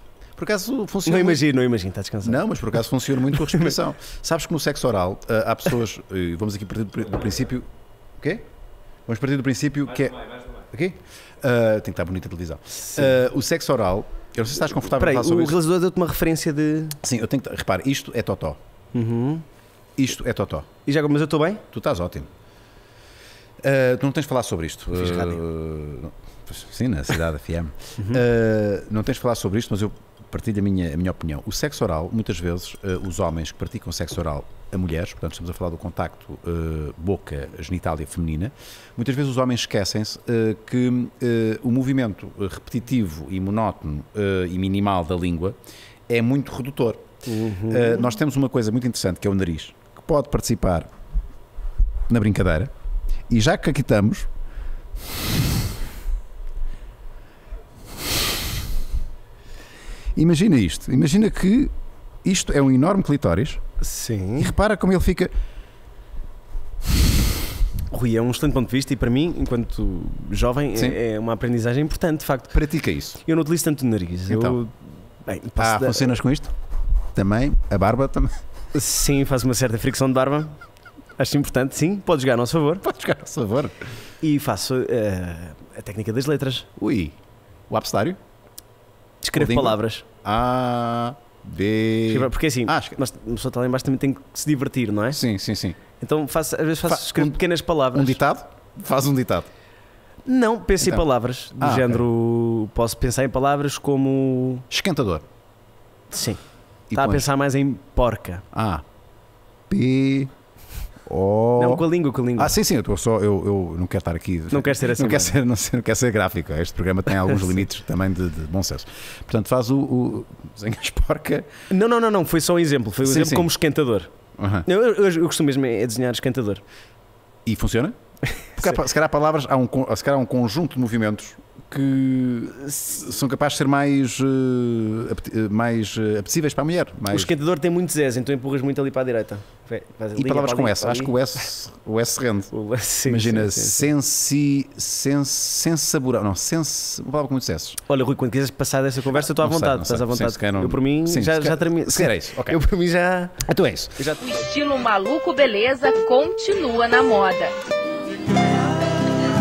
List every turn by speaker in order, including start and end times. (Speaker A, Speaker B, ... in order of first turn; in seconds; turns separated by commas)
Speaker A: 0.4-1.4, Speaker B: 1.1-3.7, Speaker A: 2.2-7.7, Speaker A: 8.2-8.4, Speaker A: 9.1-15.6, Speaker B: 12.9-13.2, Speaker B: 14.8-17.0, Speaker A: 17.0-18.6, Speaker B: 18.9-19.4, Speaker A: 20.0-20.7, Speaker B: 20.9-21.6, Speaker A: 21.7-22.3, Speaker A: 23.6-45.6, Speaker B: 24.9-25.4, Speaker A: 46.1-47.0, Speaker B: 47.3-48.1, Speaker A: 47.7-50.9, Speaker A: 52.1-52.7, Speaker A: 53.3-54.3, Speaker A: 60.2-61.7, Speaker A: 62.2-63.6, Speaker B: 63.8-64.5, Speaker A: 64.4-65.3, Speaker B: 67.9-72.6, Speaker A: 72.5-73.2, Speaker B: 73.2-76.2, Speaker A: 74.3-74.6, Speaker A: 75.6-76.5, Speaker A: 77.1-78.3, Speaker B: 78.7-80.6, Speaker B: 81.2-82.8, Speaker A: 82.8-83.9, Speaker B: 84.2-86.7, Speaker A: 86.8-87.2, Speaker A: 87.7-88.2, Speaker B: 89.2-90.0, Speaker A: 89.4-93.0, Speaker B: 92.1-95.2, Speaker A: 95.1-95.8, Speaker B: 96.0-98.2, Speaker A: 96.9-97.4, Speaker A: 97.9-99.5, Speaker B: 100.3-104.7, Speaker A: 101.6-102.0, Speaker A: 104.7-105.3, Speaker B: 106.1-108.4, Speaker A: 106.9-107.3, Speaker A: 108.5-108.8, Speaker A: 109.7-110.3, Speaker A: 111.1-111.8, Speaker B: 111.6-112.6, Speaker A: 112.4-121.5, Speaker B: 114.5-115.4, Speaker B: 117.2-117.7, Speaker B: 121.7-124.1, Speaker A: 123.0-123.5, Speaker A: 124.4-124.7, Speaker B: 124.7-126.6, Speaker A: 127.5-128.0, Speaker B: 128.4-128.8, Speaker A: 128.6-137.3, Speaker B: 137.1-141.3, Speaker A: 140.2-142.5, Speaker B: 142.5-143.9, Speaker A: 143.1-147.8, Speaker B: 147.9-154.4, Speaker A: 149.3-152.6, Speaker A: 153.4-154.0, Speaker C: 154.3-157.6